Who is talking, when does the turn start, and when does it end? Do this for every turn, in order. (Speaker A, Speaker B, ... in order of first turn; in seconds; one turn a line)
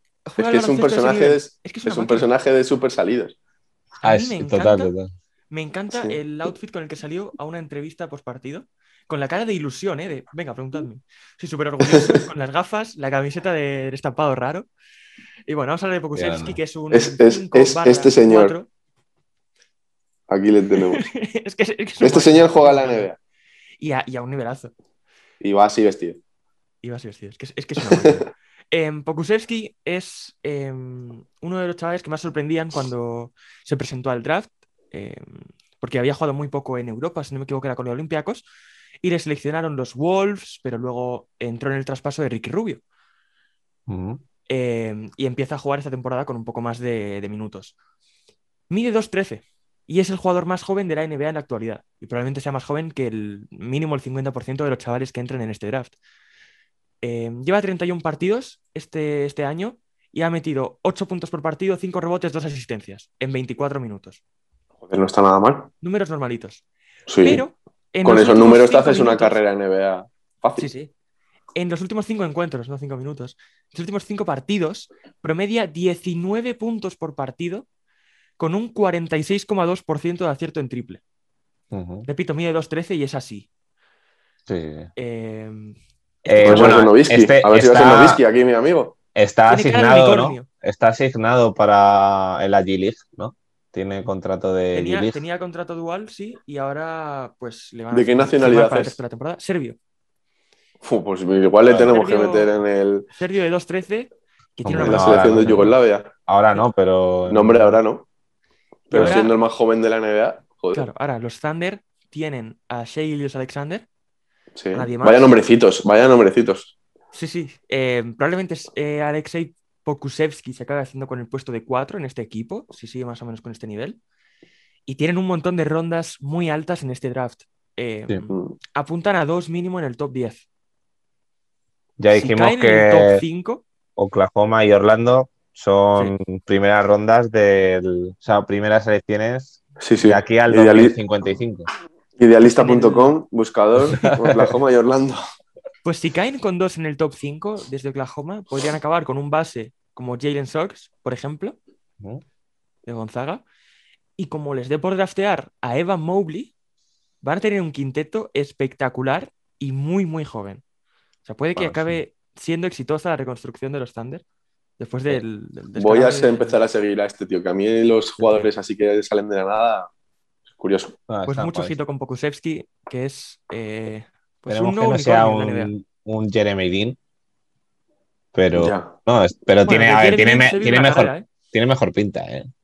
Speaker A: 0.2-2.3
Speaker B: 0.4-3.3
Speaker A: 4.0-4.9
Speaker C: 4.0-5.1
Speaker A: 5.5-14.7
Speaker B: 5.9-6.2
Speaker B: 11.8-12.2
Speaker A: 15.5-18.7
Speaker C: 16.1-16.6
Speaker B: 16.9-18.6
Speaker B: 20.3-21.1
Speaker A: 20.9-23.1
Speaker B: 22.0-23.1
Speaker A: 23.8-24.7
Speaker B: 25.4-26.2
Speaker A: 26.8-38.4
Speaker B: 27.9-28.2
Speaker A: 39.0-42.8
Speaker C: 43.9-44.2
Speaker A: 44.5-47.7
Speaker A: 48.7-56.0
Speaker A: 57.0-64.2
Speaker B: 64.8-65.7
Speaker A: 65.8-66.6
Speaker B: 67.1-67.4
Speaker A: 67.2-69.4
Speaker B: 68.0-70.7
Speaker A: 70.6-70.9
Speaker A: 71.5-77.7
Speaker A: 78.4-81.0
Speaker C: 81.7-82.1
Speaker A: 82.1-83.5
Speaker C: 84.5-84.9
Speaker A: 85.0-86.9
Speaker C: 86.2-88.2
Speaker B: 86.4-89.0
Speaker C: 89.1-95.2
Speaker A: 89.5-90.5
Speaker A: 94.7-99.8
Speaker B: 97.9-99.0
Speaker B: 100.8-103.1
Speaker C: 101.7-101.9
Speaker A: 101.8-102.6
Speaker A: 103.2-105.7
Speaker C: 104.6-107.8
Speaker B: 104.8-106.1
Speaker B: 107.3-108.0
Speaker B: 108.9-110.9
Speaker A: 108.9-109.3
Speaker C: 108.9-109.2
Speaker A: 110.7-113.8
Speaker B: 114.5-116.7
Speaker A: 114.7-115.3
Speaker A: 117.1-124.0
Speaker A: 124.8-130.4
Speaker B: 128.3-128.6
Speaker C: 132.0-133.2
Speaker A: 132.1-133.6
Speaker C: 133.9-141.7
Speaker B: 139.8-141.0
Speaker B: 142.2-145.2
Speaker A: 142.4-143.1
Speaker A: 145.8-151.6
Speaker A: 152.8-153.4
Speaker A: 154.2-156.5
Speaker A: 157.2-160.6
Speaker A: 161.2-164.2
Speaker C: 161.6-162.0
Speaker A: 164.8-166.6
Speaker B: 165.8-169.9
Speaker A: 168.2-168.5
Speaker B: 170.5-171.0
Speaker C: 171.1-171.8
Speaker A: 171.3-175.7
Speaker C: 174.5-177.0
Speaker C: 178.3-182.5
Speaker B: 178.5-178.9
Speaker A: 179.6-181.2